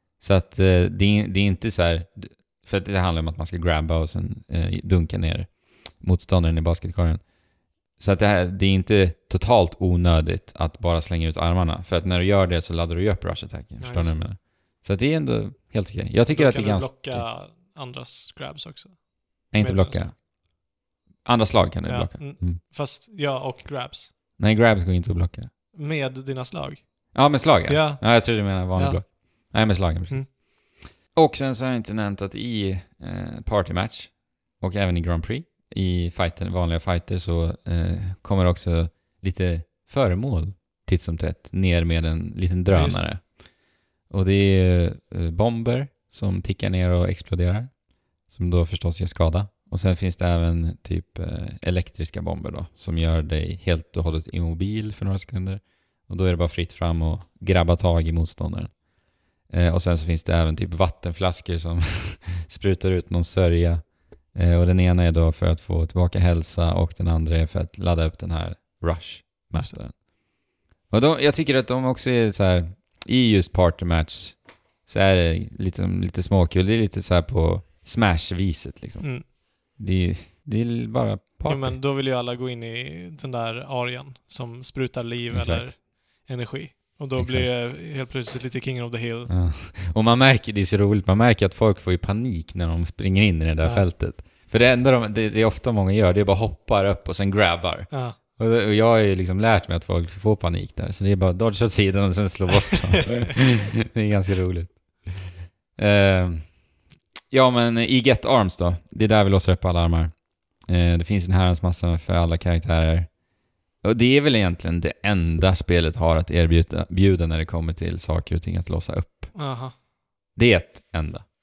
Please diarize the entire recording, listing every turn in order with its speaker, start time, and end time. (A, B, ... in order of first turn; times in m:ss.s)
0:00.2-0:07.2 A
0:08.0-0:17.3 A
0:13.8-0:14.2 B
0:16.3-0:20.1 B
0:19.5-0:20.2 A
0:21.2-0:22.6 A
0:21.9-0:24.1 B
0:24.4-0:25.5 A
0:25.7-0:29.5 B
0:27.1-0:43.4 A
0:42.7-0:43.0 B
0:44.1-0:47.7 A
0:48.3-0:58.8 A
0:59.5-1:10.1 A
1:10.9-1:21.8 A
1:19.0-1:19.3 B
1:21.4-1:29.3 B
1:25.3-1:25.8 A
1:27.2-1:27.6 A
1:29.3-1:46.6 A
1:33.6-1:33.9 B
1:37.9-1:38.2 B
1:42.7-1:43.3 B
1:47.3-1:53.1 A
1:53.8-1:59.4 A
1:59.3-1:59.8 B
2:00.3-2:01.2 A